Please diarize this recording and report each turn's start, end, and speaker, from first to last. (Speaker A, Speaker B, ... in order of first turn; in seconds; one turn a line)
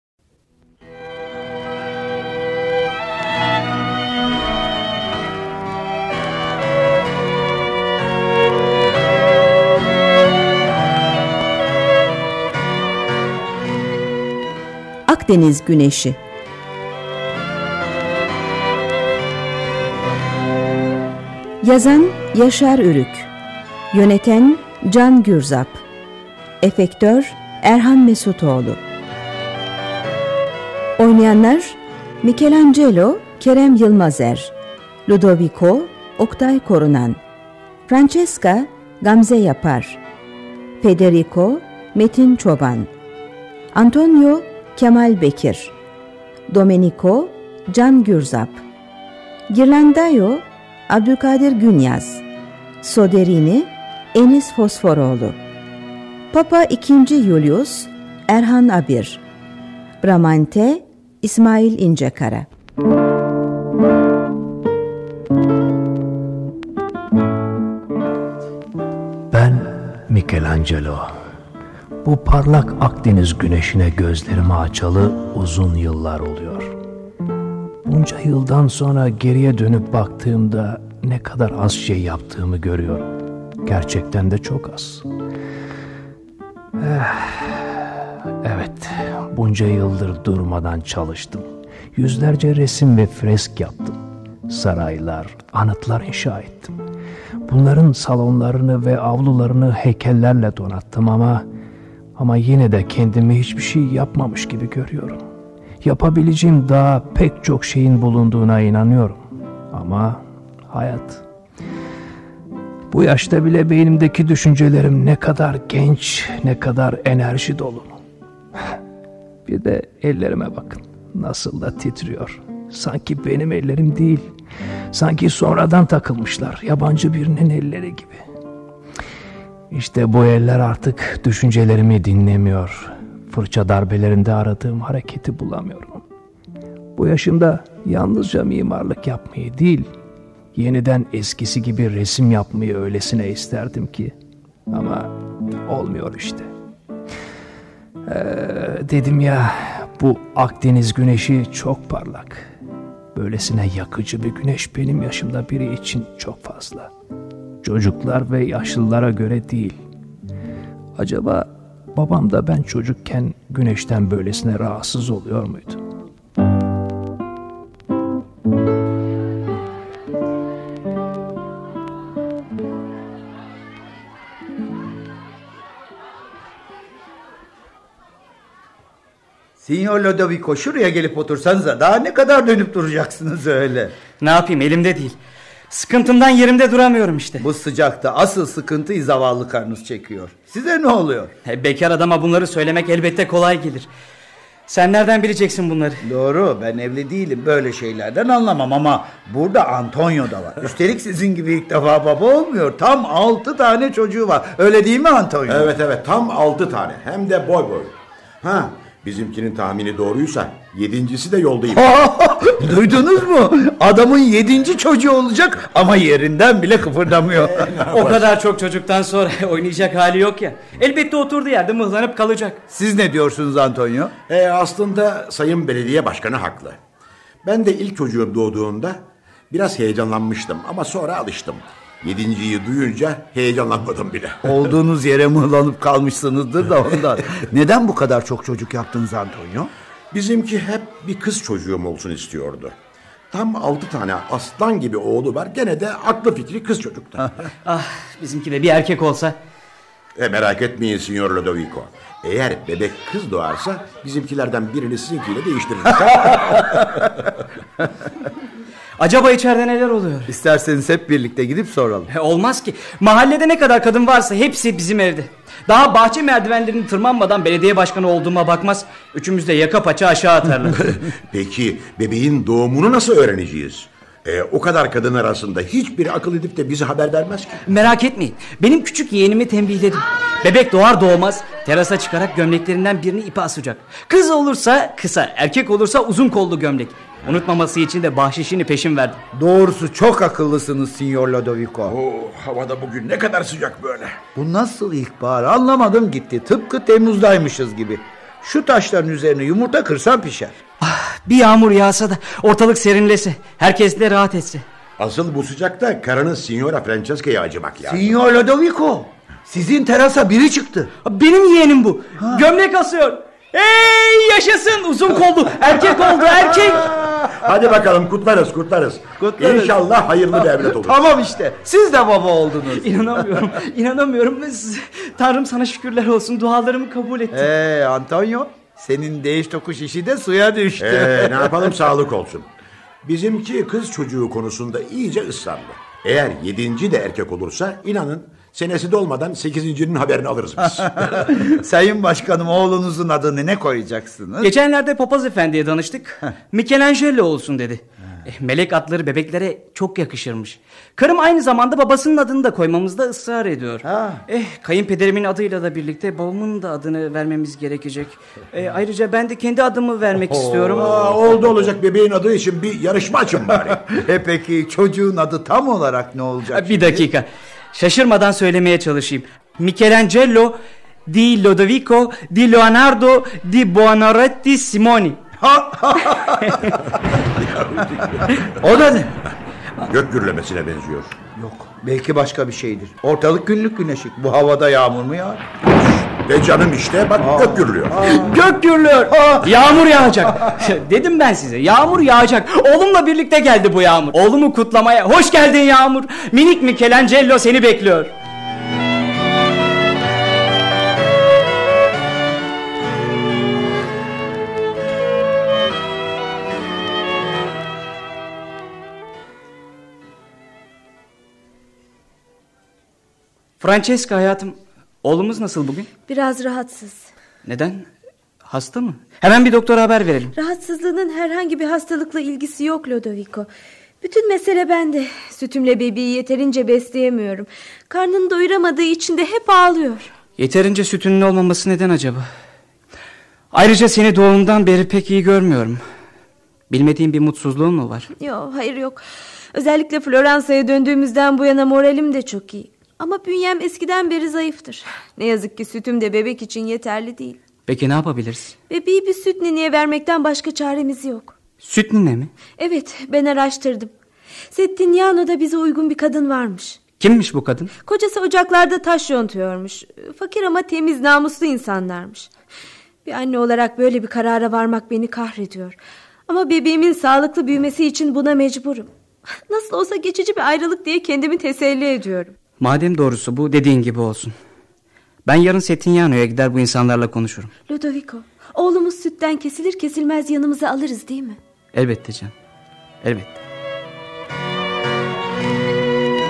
Speaker A: 15.1-16.2
Speaker A: 21.6-23.3
Speaker A: 23.9-25.8
Speaker A: 26.6-28.8
Speaker A: 31.0-34.5
Speaker A: 35.1-37.2
Speaker A: 37.9-40.0
Speaker A: 40.8-42.9
Speaker A: 43.7-45.7
Speaker A: 46.5-48.6
Speaker A: 49.5-52.2
Speaker A: 52.8-55.4
Speaker A: 56.3-59.2
Speaker A: 60.0-62.5
Speaker B: 69.3-71.1
Speaker B: 72.0-76.8
Speaker B: 77.8-83.1
Speaker B: 83.7-85.1
Speaker B: 86.8-96.8
Speaker B: 97.5-101.5
Speaker B: 102.2-105.2
Speaker B: 105.8-111.2
Speaker B: 112.9-118.0
Speaker B: 119.5-124.3
Speaker B: 124.9-128.2
Speaker B: 129.7-136.0
Speaker B: 137.0-139.9
Speaker B: 140.6-144.2
Speaker B: 144.7-146.5
Speaker B: 148.1-152.5
Speaker B: 153.2-156.9
Speaker B: 157.6-159.8
Speaker B: 161.0-165.8
Speaker C: 179.6-183.9
Speaker D: 184.2-185.2
Speaker D: 185.7-187.4
Speaker C: 187.4-191.3
Speaker D: 191.4-193.9
Speaker D: 194.7-196.1
Speaker C: 196.0-205.7
Speaker E: 205.5-211.9
Speaker C: 211.8-217.8
Speaker E: 217.4-218.2
Speaker D: 217.9-222.6
Speaker C: 222.7-224.1
Speaker E: 224.3-226.8
Speaker E: 227.4-234.5
Speaker C: 234.4-239.7
Speaker E: 240.1-242.8
Speaker E: 243.3-247.3
Speaker D: 247.6-249.4
Speaker E: 250.2-256.7
Speaker D: 259.0-260.3
Speaker C: 260.3-262.1
Speaker D: 262.1-270.9
Speaker E: 270.8-277.6
Speaker D: 277.7-289.2
Speaker C: 289.3-291.9
Speaker E: 291.9-294.2
Speaker C: 294.4-300.6
Speaker D: 300.8-304.6
Speaker E: 305.0-308.2
Speaker C: 307.9-310.9
Speaker D: 311.1-316.9
Speaker E: 317.3-321.0
Speaker C: 319.2-323.5
Speaker D: 322.8-327.5
Speaker C: 327.3-331.7
Speaker E: 330.8-332.5
Speaker E: 333.0-341.4
Speaker C: 340.8-344.5
Speaker D: 344.4-360.9
Speaker C: 353.8-354.2
Speaker C: 360.2-361.7
Speaker E: 360.7-363.9
Speaker C: 363.8-367.1
Speaker D: 366.5-375.2
Speaker C: 375.4-376.6
Speaker E: 377.3-378.3
Speaker C: 378.6-379.2
Speaker E: 379.9-381.2
Speaker C: 381.4-385.6
Speaker E: 386.1-388.0
Speaker C: 387.2-389.5
Speaker D: 388.1-398.1
Speaker D: 413.6-415.9
Speaker F: 416.1-417.1
Speaker D: 417.4-417.9
Speaker D: 418.4-420.3
Speaker F: 420.4-423.5
Speaker F: 424.0-430.1
Speaker D: 430.4-432.2
Speaker D: 433.5-435.8
Speaker D: 436.7-438.1
Speaker F: 438.2-447.4
Speaker D: 447.7-448.6
Speaker F: 448.7-451.4
Speaker D: 451.6-452.3
Speaker F: 452.6-453.9
Speaker F: 454.5-456.8
Speaker D: 457.0-457.7
Speaker F: 457.9-462.3
Speaker F: 463.1-468.9
Speaker F: 469.5-472.4
Speaker D: 472.6-474.4
Speaker D: 475.2-477.5
Speaker F: 477.7-481.4
Speaker D: 481.7-482.3
Speaker D: 483.0-483.4